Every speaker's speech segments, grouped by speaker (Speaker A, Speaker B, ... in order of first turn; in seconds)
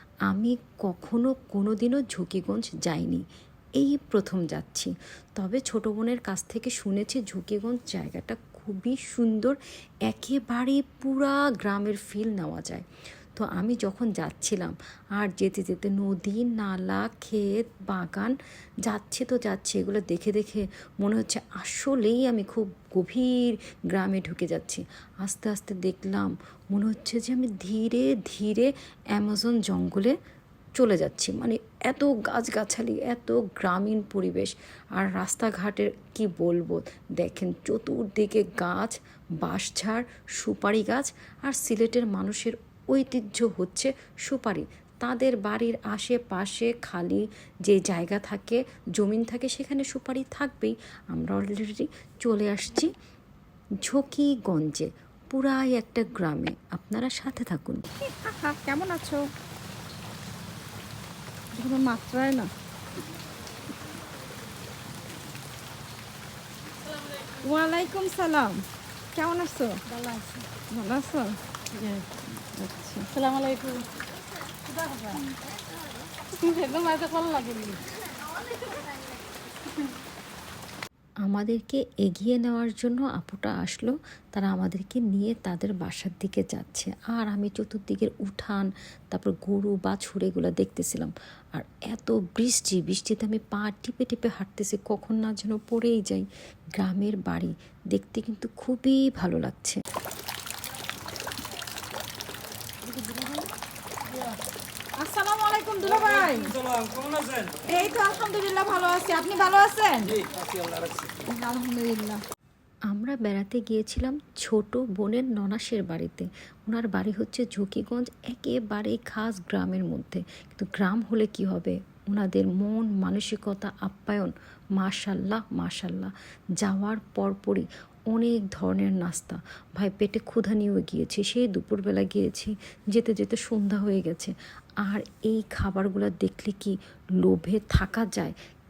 Speaker A: 0.3-3.2, 3.8-18.3, 18.9-30.2, 30.8-52.9, 53.8-57.8, 81.2-99.8, 112.9-138.3
Speaker B: 58.0-59.3, 61.5-62.5, 67.3-69.9, 70.5-73.6, 76.3-77.5, 102.8-103.5, 105.0-106.6, 107.6-110.2, 111.1-112.2
Speaker C: 69.9-70.4, 73.1-73.8, 74.8-75.1, 76.6-77.8